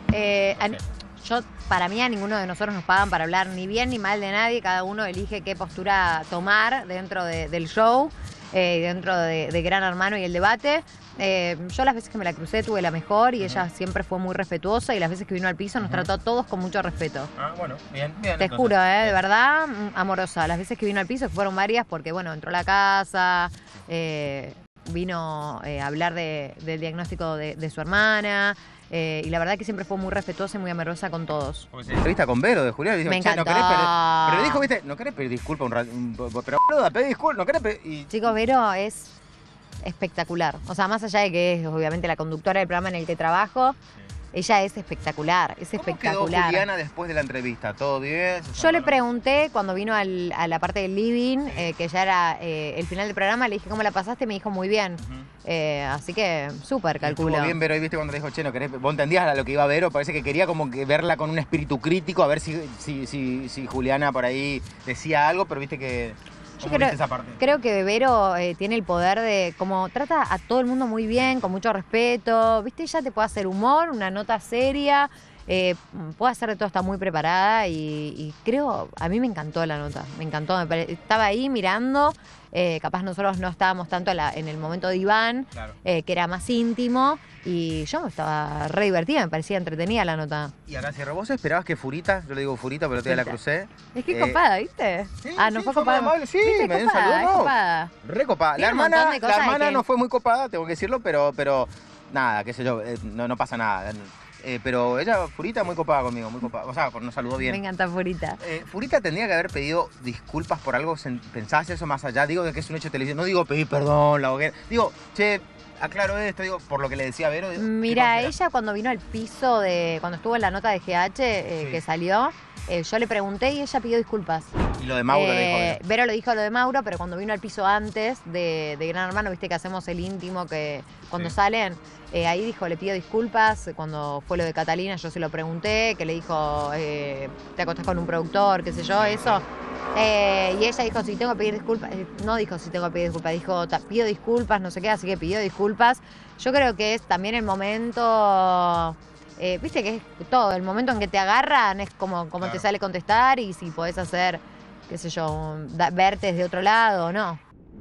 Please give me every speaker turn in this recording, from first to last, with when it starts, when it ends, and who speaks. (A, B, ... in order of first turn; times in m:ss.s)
0:00.1-0:17.3 A
0:00.6-0:00.9 B
0:13.4-0:13.7 B
0:15.8-0:16.1 B
0:17.4-0:19.2 B
0:18.4-0:31.7 A
0:31.7-0:38.3 B
0:33.1-0:34.7 A
0:38.1-0:39.1 A
0:39.8-0:43.8 A
0:44.3-0:46.7 A
0:45.7-0:49.0 B
0:48.6-0:57.6 A
0:51.4-0:51.7 B
0:55.0-0:55.3 B
0:57.0-1:07.4 B
1:06.6-1:30.5 A
1:11.2-1:11.5 B
1:30.7-1:34.4 B
1:33.0-1:33.4 A
1:33.9-1:37.9 A
1:35.2-1:47.6 B
1:38.6-1:39.8 A
1:47.4-1:48.4 A
1:48.4-1:58.4 B
1:57.6-2:04.5 A
2:01.5-2:01.8 B
2:04.8-2:05.8 B
2:05.1-2:37.4 A
2:19.0-2:19.4 B